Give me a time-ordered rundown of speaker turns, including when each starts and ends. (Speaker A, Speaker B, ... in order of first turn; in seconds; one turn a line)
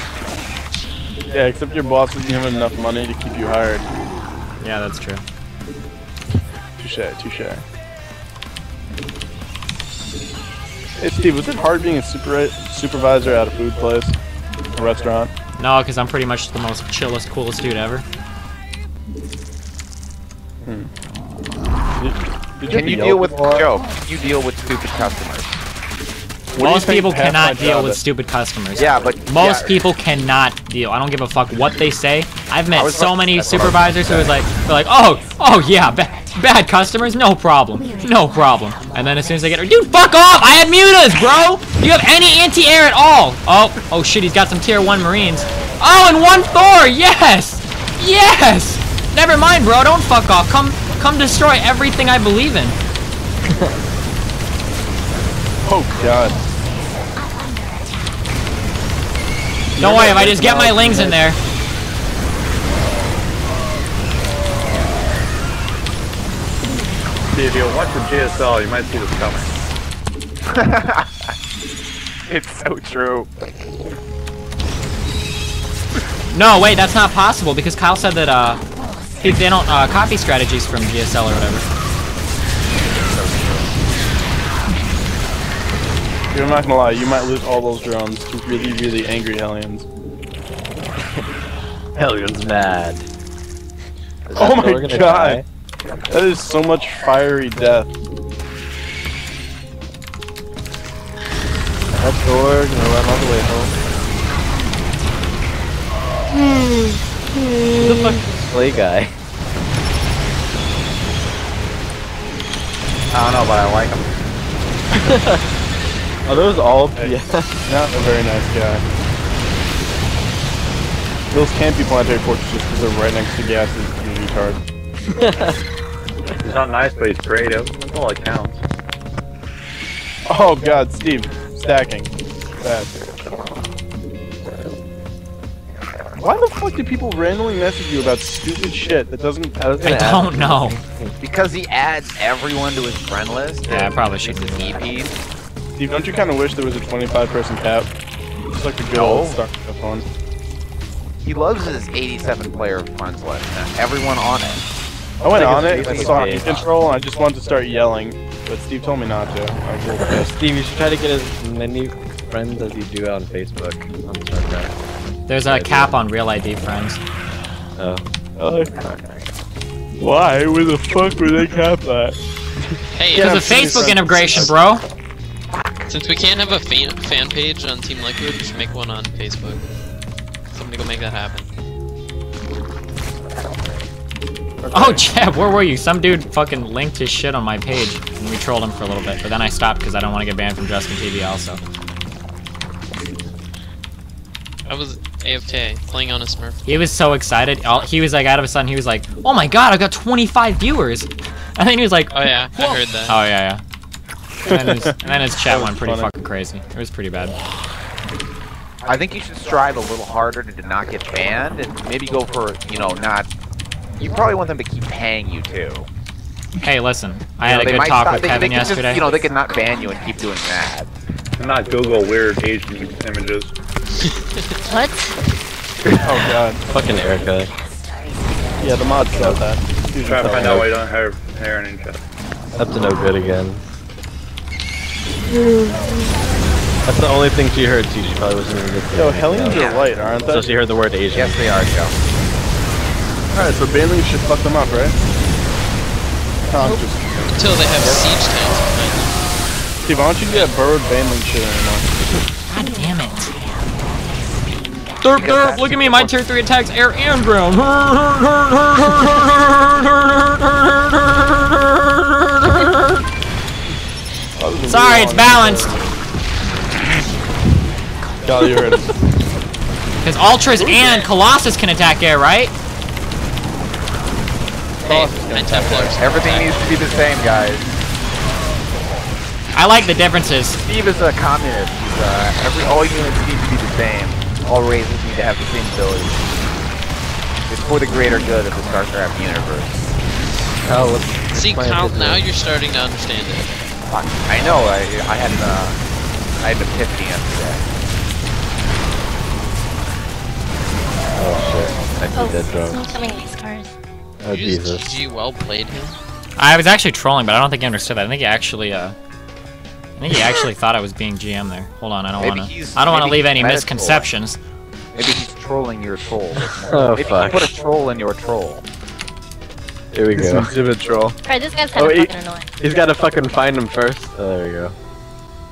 Speaker A: 1.3-3.9
Speaker B: 4.6-5.2
Speaker A: 6.8-7.6
Speaker A: 11.0-14.2
Speaker A: 14.7-15.3
Speaker B: 15.6-18.0
Speaker A: 20.6-20.9
Speaker A: 21.9-23.6
Speaker C: 22.7-25.6
Speaker A: 26.5-28.0
Speaker B: 26.6-52.8
Speaker C: 28.8-29.8
Speaker C: 32.7-34.3
Speaker A: 55.6-56.4
Speaker A: 59.8-61.2
Speaker B: 59.8-61.4
Speaker D: 67.3-69.5
Speaker C: 70.5-71.3
Speaker C: 72.3-73.3
Speaker B: 76.3-78.6
Speaker B: 79.2-81.6
Speaker C: 82.8-83.7
Speaker A: 86.3-89.8
Speaker E: 92.0-93.1
Speaker E: 94.2-95.4
Speaker A: 94.3-95.4
Speaker A: 96.1-97.9
Speaker E: 101.9-103.7
Speaker E: 107.8-109.1
Speaker C: 113.1-114.0
Speaker E: 115.0-115.4
Speaker E: 116.2-117.5
Speaker A: 117.7-118.8
Speaker A: 121.3-124.6
Speaker E: 125.2-125.5
Speaker D: 126.4-128.6
Speaker A: 130.2-132.9
Speaker A: 136.2-139.7
Speaker E: 139.6-141.1
Speaker B: 139.8-140.8
Speaker C: 141.2-145.2
Speaker B: 143.7-144.8
Speaker A: 145.8-147.9
Speaker A: 148.5-150.0
Speaker C: 148.9-149.4
Speaker C: 151.2-154.6
Speaker A: 155.2-160.3
Speaker E: 155.3-156.6
Speaker C: 155.3-156.7
Speaker E: 160.2-164.7
Speaker B: 165.3-167.0
Speaker E: 165.4-166.1
Speaker E: 167.8-168.1
Speaker A: 168.4-168.8
Speaker A: 170.0-172.2
Speaker F: 172.9-173.9
Speaker A: 173.1-174.5
Speaker B: 173.2-174.8
Speaker F: 175.9-179.7
Speaker F: 180.5-181.5
Speaker A: 184.6-185.1
Speaker B: 184.7-191.6
Speaker F: 194.7-196.8
Speaker B: 196.7-203.6
Speaker F: 202.1-203.2
Speaker B: 204.5-207.3
Speaker A: 204.5-206.1
Speaker C: 208.8-213.3
Speaker C: 214.0-215.9
Speaker B: 216.6-219.1
Speaker C: 217.4-220.9
Speaker D: 221.4-223.5
Speaker G: 224.7-225.1
Speaker A: 226.0-226.6
Speaker E: 226.7-227.5
Speaker A: 228.6-230.7
Speaker E: 229.2-229.4
Speaker D: 230.0-232.0
Speaker E: 232.6-233.7
Speaker E: 236.8-239.7
Speaker A: 238.9-240.5
Speaker C: 239.5-239.8
Speaker E: 240.2-241.4
Speaker C: 241.1-241.9
Speaker A: 243.3-244.9
Speaker A: 246.4-248.0
Speaker F: 247.3-249.1
Speaker A: 249.8-251.9
Speaker B: 252.5-253.3
Speaker C: 255.0-256.1
Speaker B: 255.0-262.9
Speaker A: 264.4-265.8
Speaker B: 264.6-265.7
Speaker A: 268.2-269.0
Speaker B: 270.0-272.5
Speaker A: 270.6-271.1
Speaker F: 274.8-276.8
Speaker A: 274.9-275.9
Speaker C: 275.9-277.7
Speaker B: 279.5-280.6
Speaker C: 280.6-286.3
Speaker C: 287.5-289.9
Speaker E: 290.6-292.2
Speaker F: 291.3-293.5
Speaker C: 293.9-295.8
Speaker C: 296.4-297.6
Speaker E: 301.2-302.8
Speaker G: 302.1-303.7
Speaker E: 304.2-304.9
Speaker F: 304.3-306.0
Speaker B: 306.4-308.9
Speaker B: 310.0-314.4
Speaker C: 312.2-314.1
Speaker C: 314.9-318.6
Speaker E: 316.4-317.5
Speaker E: 319.9-320.5
Speaker A: 320.1-321.1
Speaker G: 321.2-322.5
Speaker E: 321.7-324.7